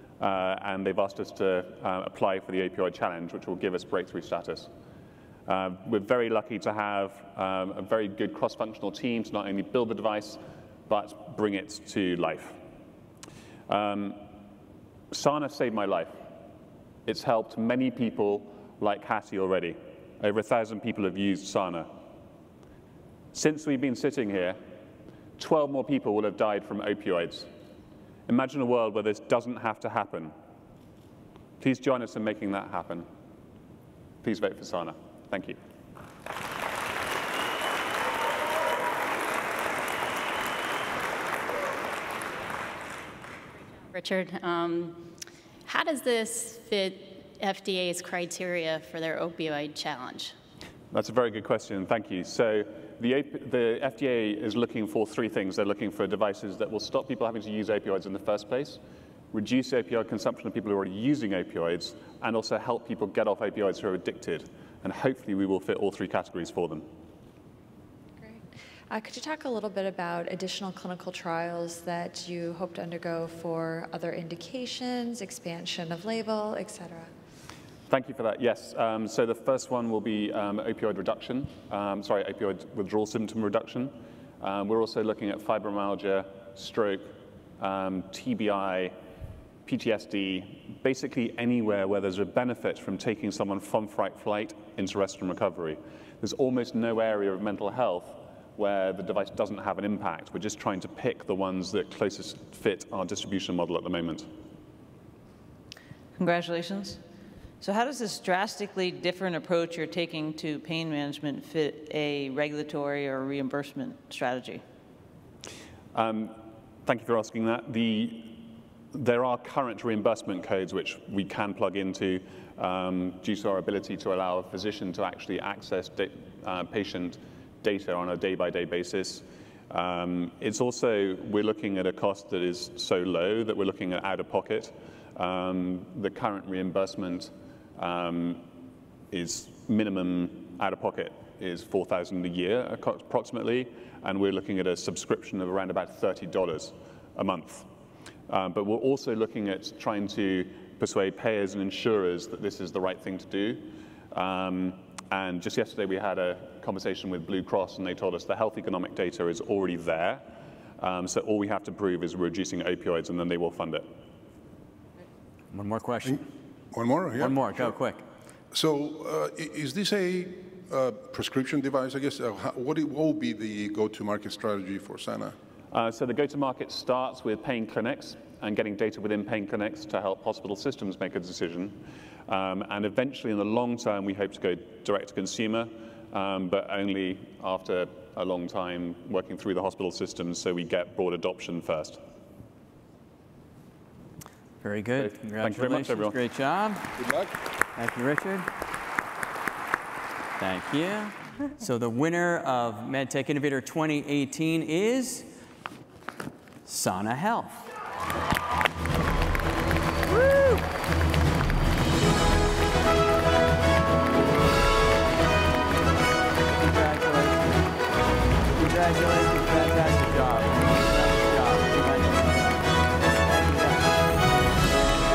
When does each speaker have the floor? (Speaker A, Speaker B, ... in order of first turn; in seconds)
Speaker A: 0.2-4.7, 5.5-12.6, 13.7-14.2, 15.1-16.1, 17.1-21.9, 23.3-24.6, 25.4-27.5, 28.3-30.3, 31.6-33.1, 34.2-35.6, 50.9-58.8, 59.3-66.8, 77.9-89.0, 89.7-104.3, 115.9-138.5, 139.1-147.7, 148.3-160.3, 160.8-163.9, 175.7-192.0, 195.0-196.2
Speaker B: 43.9-45.1, 45.7-50.4
Speaker C: 68.2-77.1
Speaker D: 106.2-107.0, 107.6-114.6
Speaker E: 165.5-166.2, 167.2-168.0, 194.6-196.9, 197.8-198.5, 200.4-205.3, 206.7-207.7, 216.5-217.6, 218.5-222.6, 223.2-224.0
Speaker F: 166.7-167.8, 168.5-175.3, 197.0-197.3